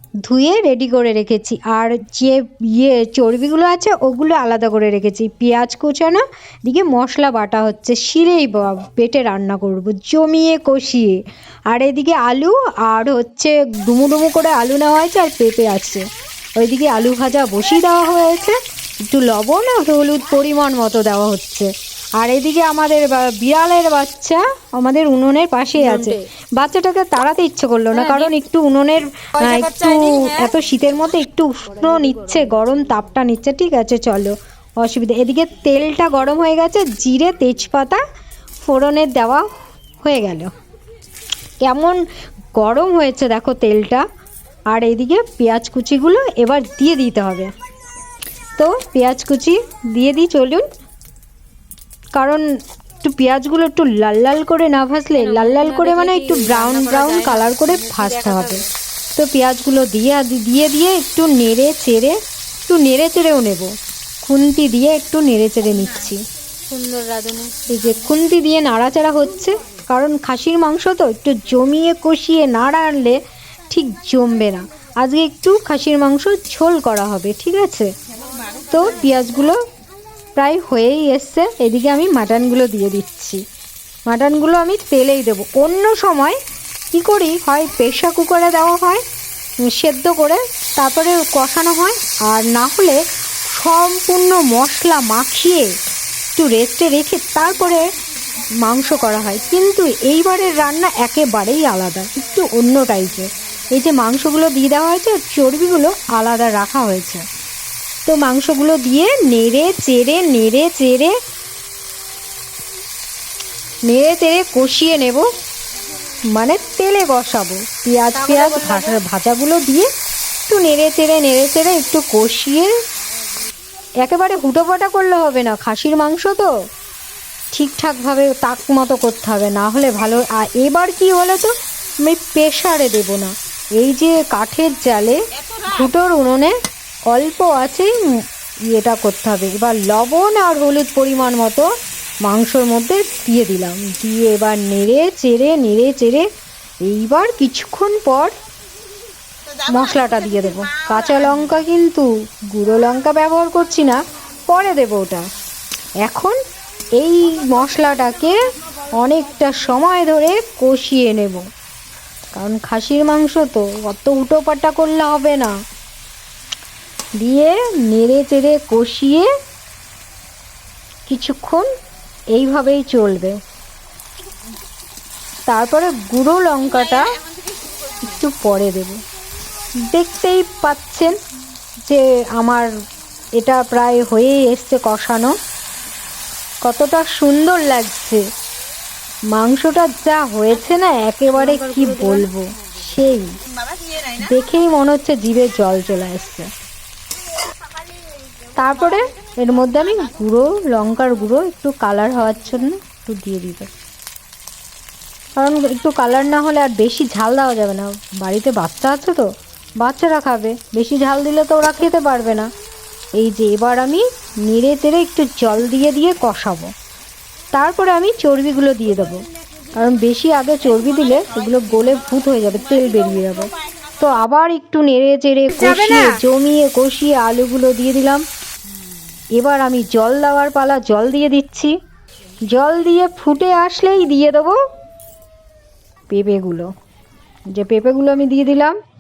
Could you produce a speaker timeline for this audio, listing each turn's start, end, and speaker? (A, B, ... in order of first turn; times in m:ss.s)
0:00.2-0:11.1 A
0:11.7-0:16.0 A
0:16.6-0:18.6 A
0:19.1-0:38.0 A
0:25.8-0:26.2 B
0:27.9-0:28.3 B
0:29.4-0:30.5 B
0:31.8-0:32.6 B
0:38.6-0:39.5 A
0:40.0-0:40.5 A
0:41.6-0:42.0 A
0:42.6-0:44.0 A
0:44.7-0:47.5 A
0:48.6-0:50.6 A
0:52.1-0:52.4 A
0:53.0-0:58.6 A
0:55.2-0:58.7 B
0:59.2-1:02.2 A
1:02.7-1:03.7 A
1:04.2-1:06.2 A
1:06.7-1:07.9 B
1:07.7-1:13.2 A
1:13.7-1:17.9 A
1:18.7-1:19.6 A
1:20.4-1:23.4 A
1:24.1-1:26.4 A
1:26.9-1:29.0 A
1:29.6-1:33.0 A
1:33.5-1:35.7 A
1:36.4-1:37.8 A
1:38.6-1:47.2 A
1:48.1-1:51.1 A
1:53.9-1:55.3 A
1:56.3-1:59.9 A
1:58.1-1:59.0 B
2:00.5-2:02.7 A
2:04.0-2:06.5 A
2:07.5-2:16.6 A
2:17.1-2:21.7 A
2:22.2-2:26.3 A
2:26.8-2:28.3 A
2:29.6-2:35.2 A
2:36.0-2:36.4 A
2:36.9-2:41.4 A
2:42.3-2:45.5 A
2:47.2-2:49.3 A
2:51.1-2:51.7 A
2:52.3-2:53.4 A
2:55.5-2:57.2 A
2:58.0-2:59.0 A
2:59.9-3:01.1 A
3:01.9-3:02.7 A
3:03.4-3:05.4 A
3:06.6-3:08.2 A
3:09.3-3:13.4 A
3:11.4-3:12.3 B
3:14.1-3:16.5 A
3:18.5-3:23.7 A
3:25.4-3:29.3 A
3:29.8-3:32.5 A
3:33.2-3:36.7 A
3:37.5-3:48.2 A
3:45.6-3:46.2 B
3:49.4-3:51.7 A
3:52.5-3:54.6 A
3:56.1-3:56.7 A
3:57.5-3:58.7 A